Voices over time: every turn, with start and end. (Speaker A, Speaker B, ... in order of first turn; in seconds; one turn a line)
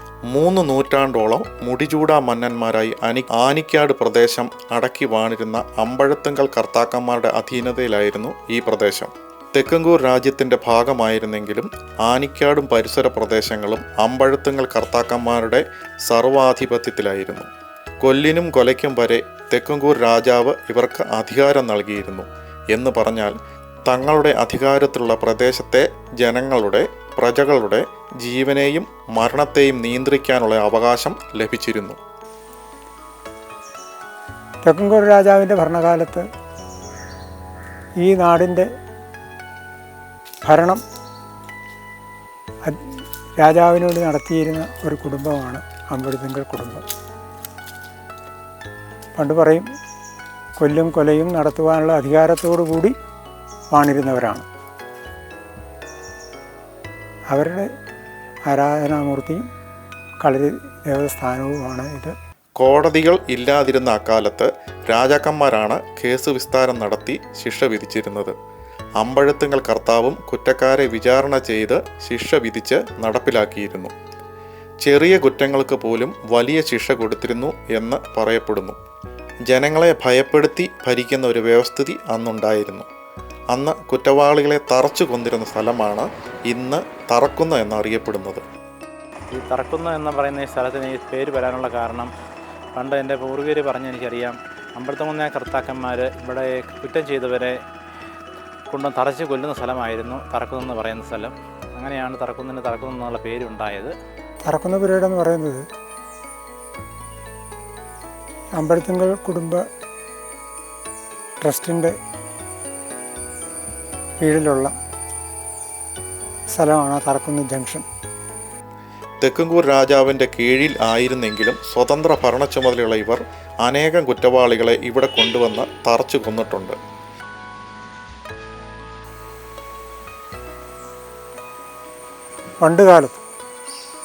Speaker A: 0.3-17.5
Speaker A: 18.0-23.3
Speaker A: 23.9-32.0
Speaker B: 34.6-36.2
Speaker B: 38.0-38.6
Speaker B: 40.4-40.8
Speaker B: 43.4-46.8
Speaker B: 49.1-49.6
Speaker B: 50.6-52.9
Speaker B: 53.7-54.4
Speaker B: 57.3-57.6
Speaker B: 58.5-59.5
Speaker B: 60.2-62.1
Speaker A: 62.6-68.3
Speaker A: 69.0-73.9
Speaker A: 74.8-78.8
Speaker A: 79.5-82.9
Speaker A: 83.5-88.4
Speaker C: 89.3-92.1
Speaker C: 92.7-97.6
Speaker C: 98.7-103.9
Speaker B: 104.4-105.6
Speaker B: 108.6-109.6
Speaker B: 111.4-111.9
Speaker B: 114.2-114.7
Speaker B: 116.5-117.8
Speaker A: 119.2-126.8
Speaker B: 132.6-133.2